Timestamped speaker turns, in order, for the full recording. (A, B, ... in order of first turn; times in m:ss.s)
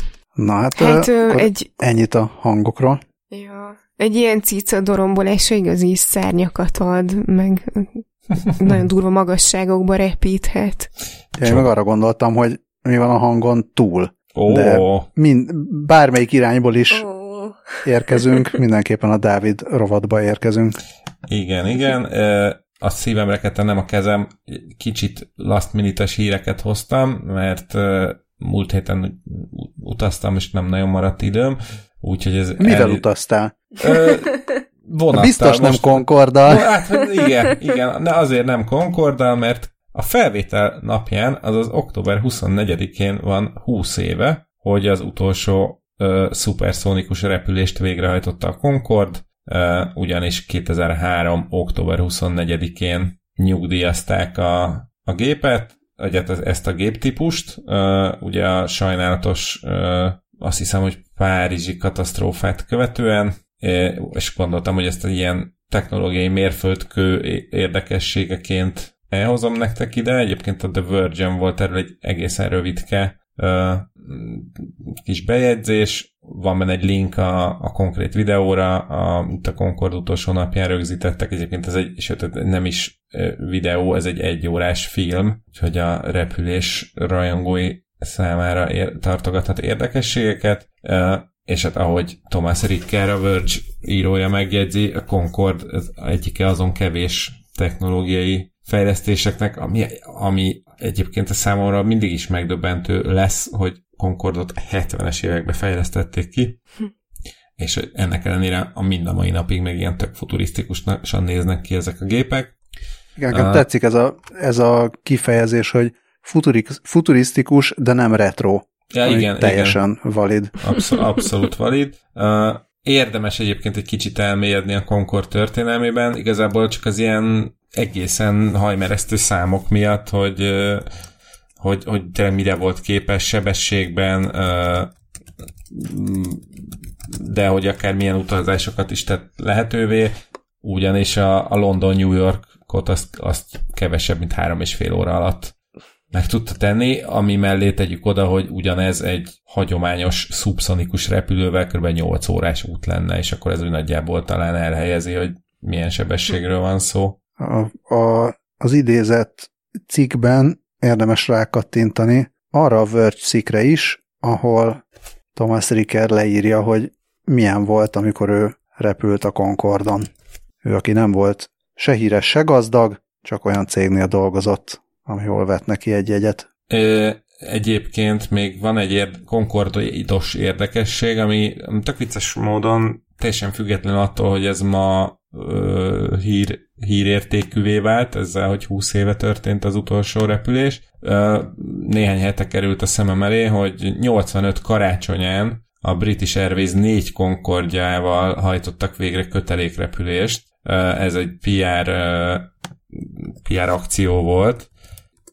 0:00.4-0:03.0 A
0:00.8-0:01.7 B
0:03.3-0:10.9 B
0:11.4-0:17.1 A
0:11.4-0:11.7 C
0:14.4-0:15.1 C
0:16.9-0:18.4 B
0:17.8-0:20.8 A
0:21.3-0:33.0 C
0:32.6-0:33.6 A
0:33.8-1:46.6 C
0:35.1-0:36.7 A
1:47.6-1:52.6 C
1:53.2-2:00.6 A
1:53.3-1:53.6 C
1:58.9-1:59.8 C
2:00.6-2:10.9 C
2:11.6-2:14.9 C
2:15.7-2:25.5 C
2:26.1-2:37.2 C
2:37.4-2:44.8 A
2:45.4-2:50.1 A
2:50.6-2:56.5 A
2:56.7-3:24.7 C